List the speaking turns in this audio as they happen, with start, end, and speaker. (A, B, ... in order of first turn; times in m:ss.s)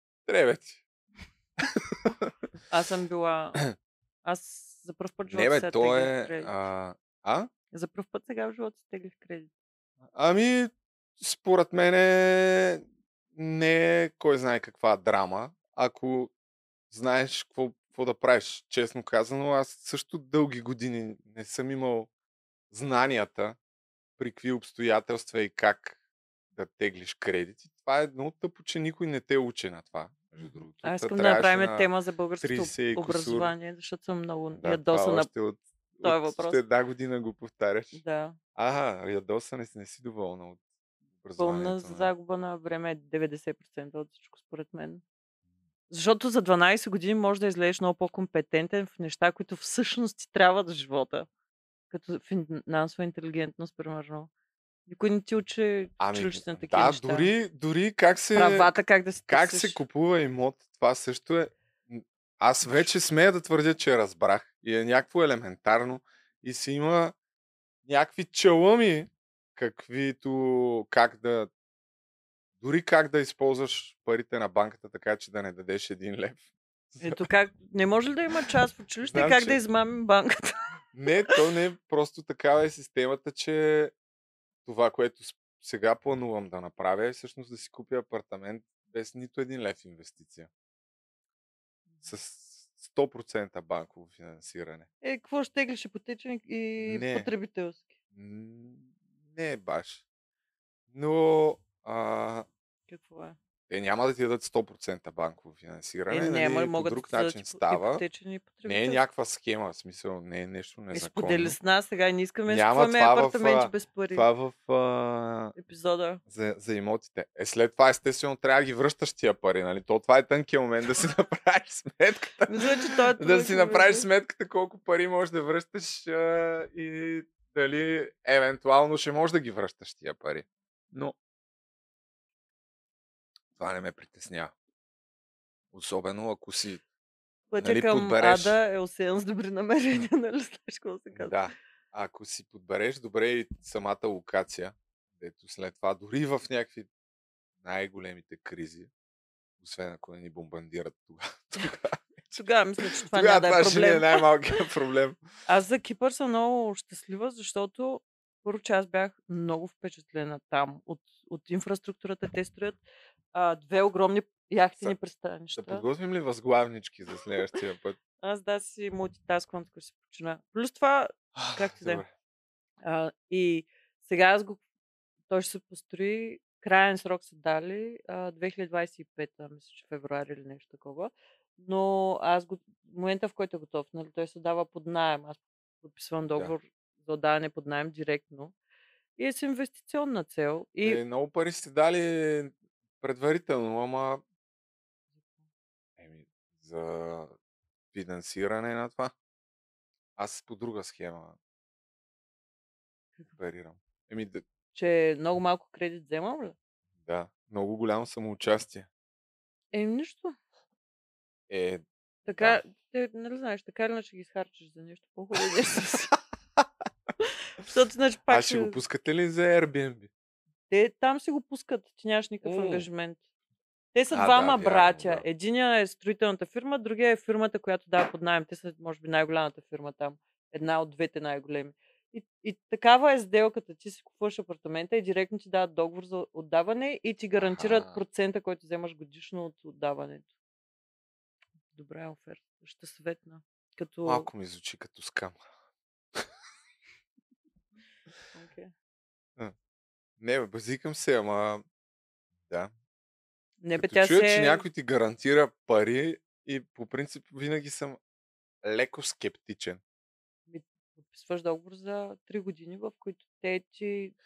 0:00.3-0:00.8 A
0:01.6-0:02.3 A
0:02.7-0:03.6 B
0:04.2-0:06.6 B
0:05.3-0:07.5 A
0:07.7-0:09.5 B
0:10.1-0:16.3 A
0:16.9-0:22.1 A
0:22.7-0:23.6 A
0:24.2-0:26.0 A
0:26.5-0:31.9 A
0:30.4-0:35.3 B
0:32.4-0:33.5 A
0:34.5-0:38.0 A
0:36.0-0:36.6 B
0:37.9-0:38.4 B
0:38.6-0:40.6 A
0:41.2-0:42.1 A
0:41.4-0:45.0 B
0:45.9-0:51.3 B
0:51.9-0:54.3 B
0:54.9-0:57.3 B
0:56.0-0:58.8 A
0:58.4-0:59.8 B
0:59.3-1:07.2 A
1:07.9-1:11.5 A
1:12.6-1:17.2 A
1:17.0-1:20.6 B
1:19.1-1:19.6 A
1:20.9-1:23.9 A
1:24.6-1:30.5 A
1:32.0-1:34.9 A
1:35.0-1:38.0 B
1:36.8-1:37.3 A
1:38.1-1:40.0 A
1:40.9-1:42.5 A
1:42.9-1:43.4 B
1:43.7-1:48.0 A
1:46.1-1:49.0 B
1:48.6-1:51.6 A
1:50.9-1:54.3 B
1:52.5-1:55.6 A
1:55.6-1:56.2 B
1:56.3-2:11.2 A
2:02.5-2:04.1 B
2:13.6-2:14.5 A
2:15.7-2:16.8 A
2:17.5-2:21.4 B
2:17.6-2:18.6 A
2:21.1-2:26.9 A
2:27.6-2:28.9 A
2:29.6-2:32.3 A
2:32.3-2:34.3 B
2:33.0-2:35.2 A
2:35.5-2:42.8 B
2:43.3-2:45.8 B
2:45.6-2:48.0 A
2:48.2-2:52.0 B
2:51.4-2:52.1 A
2:52.8-2:54.6 B
2:55.3-3:08.6 B
3:09.2-3:11.0 B
3:10.8-3:14.2 A
3:16.0-3:17.4 A
3:17.9-3:19.1 A
3:20.2-3:21.4 A
3:23.3-3:24.5 A
3:24.7-3:26.6 B
3:27.0-3:28.9 A
3:29.7-3:30.4 B
3:31.5-3:31.8 A
3:32.3-3:36.2 B
3:37.2-3:38.8 B
3:38.3-3:40.1 A
3:40.7-3:43.2 B
3:42.4-3:42.9 A
3:43.9-4:00.3 B
3:44.1-3:45.3 A
3:57.4-3:58.0 A
4:01.7-4:04.3 B
4:04.0-4:05.4 A
4:08.3-4:08.7 B
4:10.2-4:11.6 A
4:13.6-4:14.6 B
4:13.8-4:18.0 A
4:18.6-4:19.8 A
4:20.5-4:24.2 B